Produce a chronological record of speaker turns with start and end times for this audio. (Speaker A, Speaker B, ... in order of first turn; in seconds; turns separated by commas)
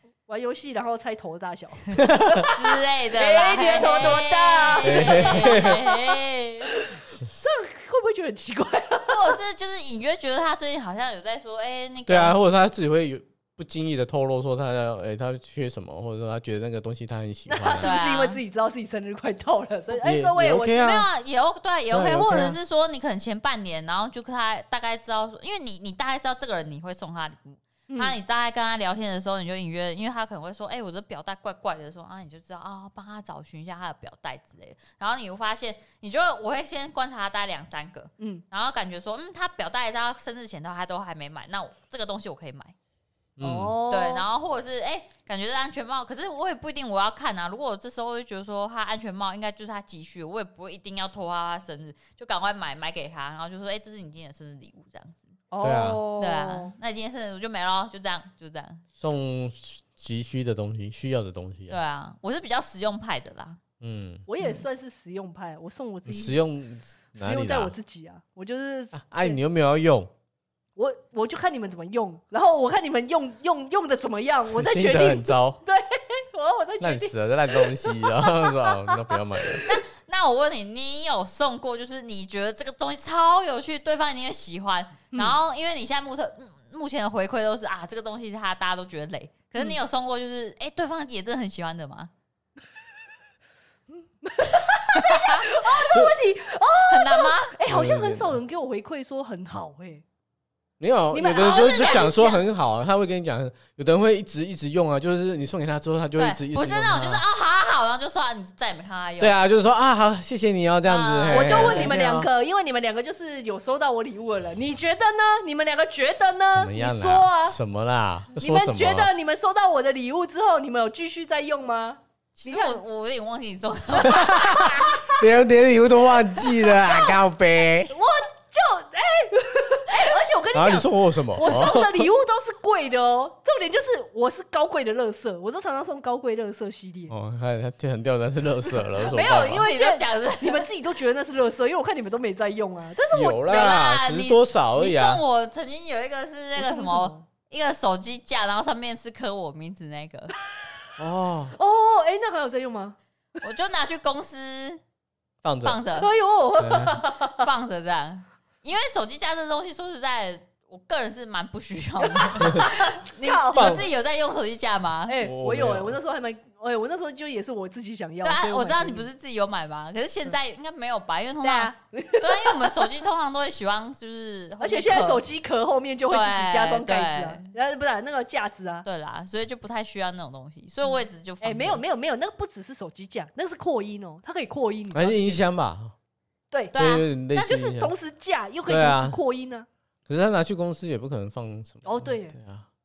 Speaker A: 0.3-6.1, Speaker B: 1.9-2.4, Speaker C: 2.5-6.7, Speaker B: 4.8-5.8, Speaker A: 6.7-9.4, Speaker C: 9.1-12.3, Speaker B: 12.1-17.9, Speaker A: 17.5-20.9, Speaker C: 17.8-18.4, Speaker B: 19.9-21.1, Speaker C: 20.8-42.7, Speaker B: 21.9-22.6, Speaker A: 27.9-28.1, Speaker B: 43.4-43.8, Speaker A: 43.4-44.2, Speaker C: 43.9-55.3, Speaker A: 55.5-56.7, Speaker B: 55.6-56.0, Speaker C: 56.2-58.8, Speaker B: 59.0-61.8, Speaker C: 61.7-63.6, Speaker B: 63.8-64.2, Speaker A: 64.3-66.4, Speaker B: 66.1-67.7, Speaker A: 67.2-69.4, Speaker B: 68.9-70.1, Speaker A: 70.8-79.7, Speaker B: 74.5-75.6, Speaker B: 76.8-79.7, Speaker C: 79.6-92.1, Speaker A: 93.9-100.0, Speaker C: 95.0-95.4, Speaker C: 96.9-97.5, Speaker B: 97.7-98.4, Speaker B: 100.8-107.2, Speaker A: 101.1-102.4, Speaker C: 101.3-102.4, Speaker C: 106.2-109.3, Speaker B: 109.2-112.3, Speaker C: 110.8-111.9, Speaker A: 111.3-117.6, Speaker B: 116.5-119.1, Speaker A: 118.4-122.8, Speaker C: 122.4-125.1, Speaker B: 124.0-127.9, Speaker A: 126.3-127.2, Speaker A: 127.9-137.1, Speaker B: 130.5-132.1, Speaker B: 137.1-139.7, Speaker A: 138.9-143.6, Speaker C: 139.0-140.7, Speaker B: 143.1-145.2, Speaker C: 143.5-150.3, Speaker A: 146.6-147.3, Speaker B: 151.0-151.5, Speaker A: 151.5-153.0, Speaker C: 153.4-154.8, Speaker B: 155.4-155.8, Speaker C: 155.6-156.1, Speaker A: 155.9-157.4, Speaker B: 156.6-157.0, Speaker C: 157.1-165.2, Speaker A: 162.0-163.8, Speaker B: 163.4-163.8, Speaker A: 165.1-169.1, Speaker B: 165.2-165.9, Speaker C: 168.2-175.2, Speaker A: 171.4-172.9, Speaker A: 174.6-178.8, Speaker C: 176.1-177.5, Speaker C: 178.8-181.8, Speaker A: 180.8-185.4, Speaker B: 184.9-185.9, Speaker A: 186.5-186.8, Speaker C: 186.7-187.1, Speaker B: 186.7-187.9, Speaker A: 187.3-189.7, Speaker B: 188.7-189.2, Speaker B: 190.1-192.7, Speaker A: 191.8-192.4